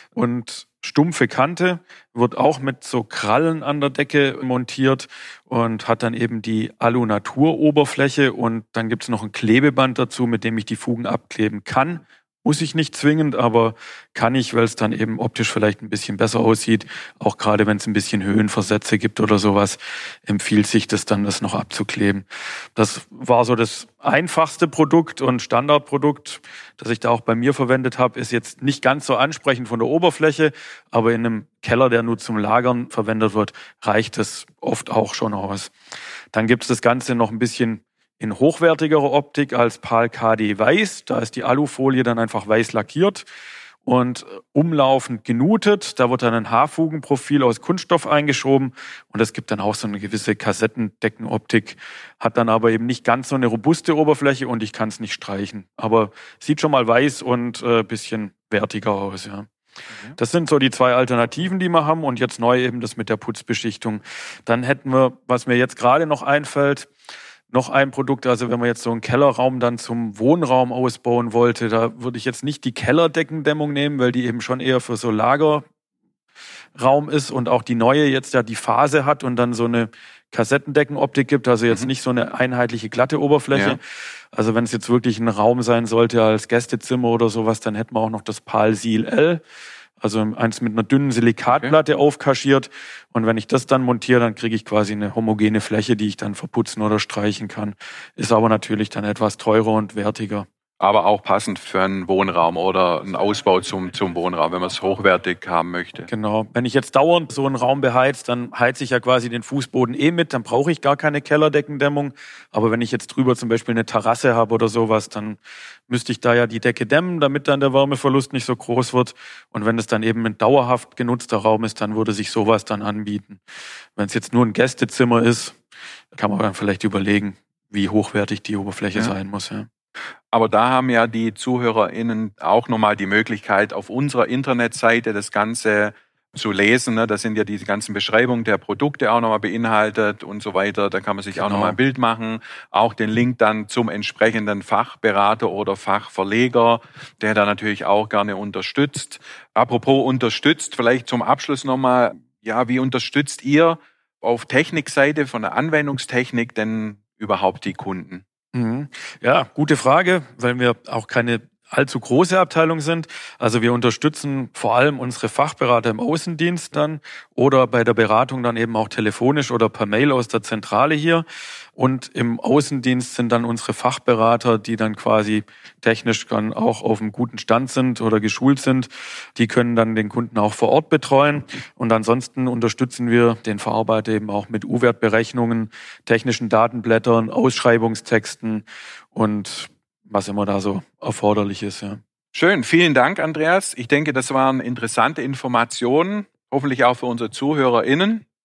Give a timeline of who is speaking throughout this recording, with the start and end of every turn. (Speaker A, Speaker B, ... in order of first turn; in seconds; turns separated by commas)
Speaker A: 0.1-35.7, Speaker A: 36.3-43.2, Speaker A: 43.9-59.5, Speaker A: 60.2-66.9, Speaker A: 67.5-75.7, Speaker A: 76.8-83.8, Speaker B: 83.5-83.8, Speaker A: 84.3-89.4, Speaker A: 90.0-100.5, Speaker B: 100.8-106.1, Speaker A: 106.1-123.4, Speaker A: 124.0-125.5, Speaker A: 126.1-129.7, Speaker B: 130.3-158.2, Speaker A: 141.3-141.8, Speaker A: 158.5-171.2, Speaker A: 171.8-192.0, Speaker B: 192.3-198.2